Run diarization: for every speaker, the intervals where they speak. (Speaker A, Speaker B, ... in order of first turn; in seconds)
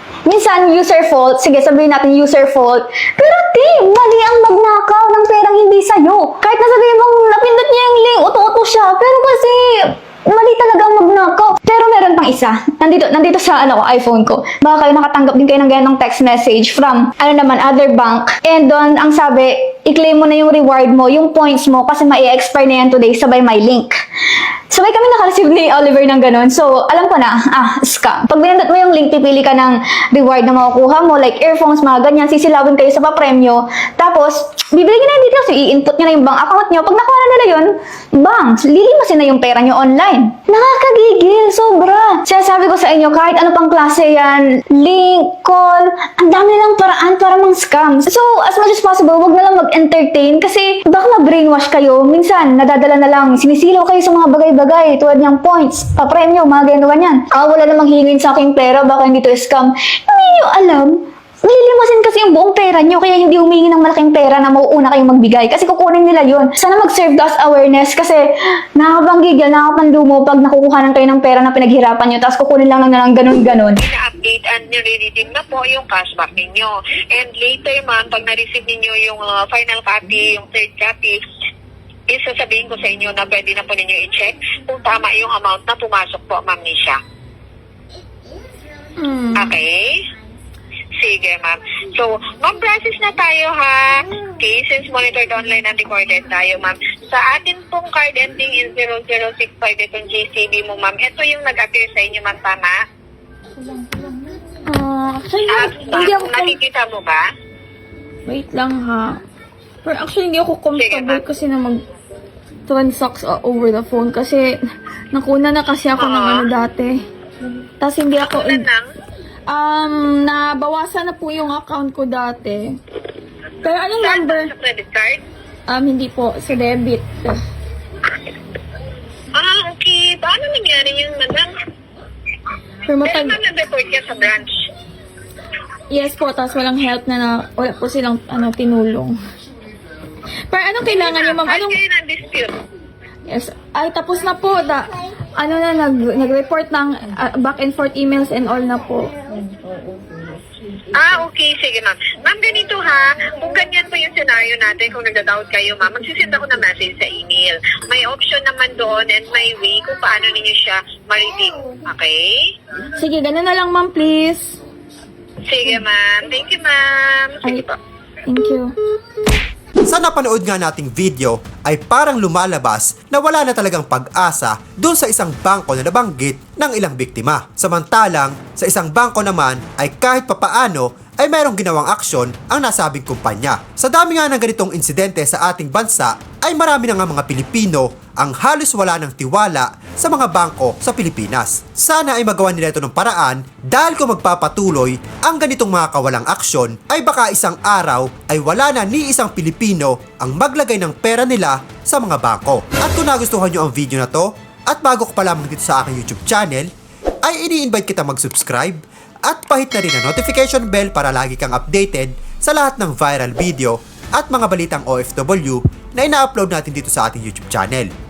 Speaker A: 0.3-24.0, 24.7-73.8
Speaker B: 73.8-81.2, 82.1-87.0, 89.4-90.0, 91.0-102.8, 105.5-107.2, 110.8-111.3, 116.0-116.5, 118.2-118.9, 124.0-125.2, 129.4-131.5, 133.0-134.5, 140.8-142.6, 150.9-162.2, 165.5-167.7
Speaker C: 89.0-89.6, 104.7-106.6, 108.3-109.2, 109.8-111.8, 112.7-114.5, 115.1-117.0, 117.8-118.7, 119.5-122.8, 123.6-124.5, 125.7-127.4, 132.9-133.4, 135.9-139.2, 140.5-141.8, 143.3-149.1, 163.0-164.5, 167.4-167.7, 168.3-168.7
Speaker D: 169.9-206.7, 207.2-217.9